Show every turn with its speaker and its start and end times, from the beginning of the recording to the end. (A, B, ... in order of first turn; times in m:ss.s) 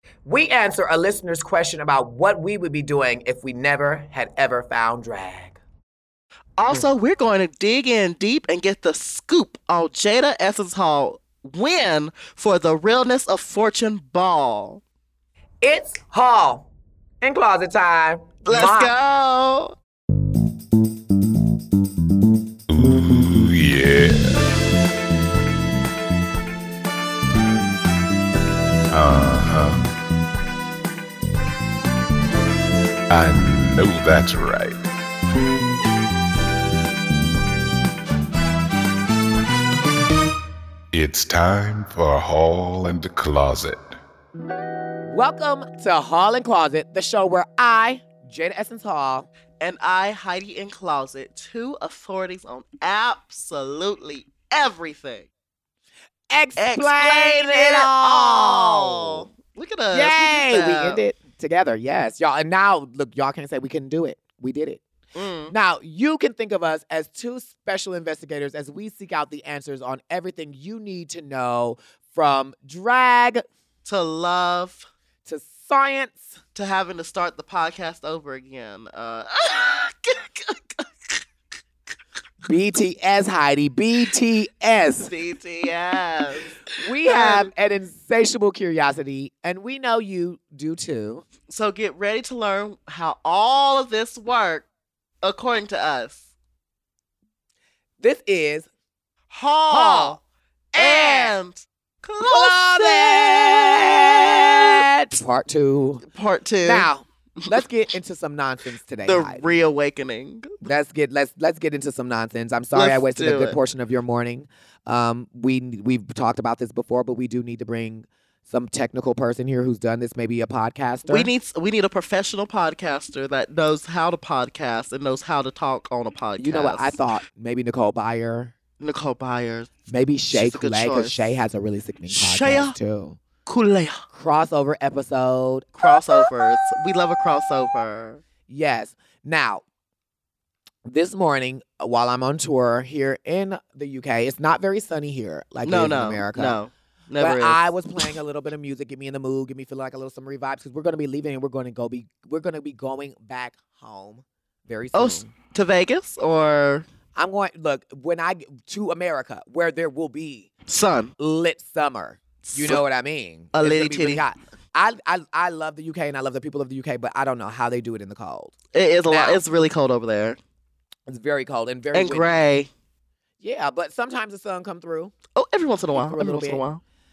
0:00.2-0:05.6 A
0:06.6-0:14.8 B
0:15.6-0:16.7 A
0:17.2-0:18.9 A
0:18.4-0:19.8 B
0:22.7-0:24.5 C
0:28.9-0:29.9 C
0:33.1-0:34.8 C
0:40.9-0:44.0 C
0:45.1-0:49.3 A
0:49.6-0:55.3 B
0:56.3-0:59.3 A
0:56.6-1:01.0 B
0:59.9-1:04.8 A
1:05.1-1:05.5 B
1:05.5-1:13.4 A
1:13.8-1:14.8 B
1:15.2-1:16.4 A
1:16.5-1:21.2 B
1:22.4-1:25.1 A
1:25.0-1:27.5 B
1:26.8-1:31.2 A
1:31.5-1:34.7 B
1:35.2-1:36.2 B
1:38.0-1:38.7 A
1:39.3-1:40.2 B
1:39.7-1:40.2 A
1:40.7-1:41.3 A
1:40.8-1:44.8 B
1:42.2-1:46.0 A
1:46.0-1:46.9 B
1:46.6-1:49.5 A
1:49.0-1:50.5 B
1:50.6-2:01.3 A
1:52.7-1:53.6 B
2:01.1-2:07.0 B
2:06.4-2:08.5 A
2:08.8-2:09.7 B
2:09.9-2:13.2 A
2:10.3-2:11.3 B
2:12.1-2:12.8 B
2:13.4-2:14.0 B
2:14.1-2:16.3 A
2:15.8-2:18.2 B
2:18.5-2:19.6 A
2:20.8-2:26.6 A
2:25.6-2:28.0 B
2:27.2-2:35.3 A
2:34.9-2:36.8 B
2:37.2-2:40.5 A
2:40.7-2:41.1 B
2:41.2-2:48.5 A
2:42.4-2:42.8 B
2:43.5-2:44.2 B
2:48.7-2:50.4 B
2:49.1-2:49.4 A
2:51.1-2:52.3 A
2:51.9-2:52.7 B
2:53.4-2:55.1 A
2:55.3-2:56.8 B
2:55.9-2:56.6 A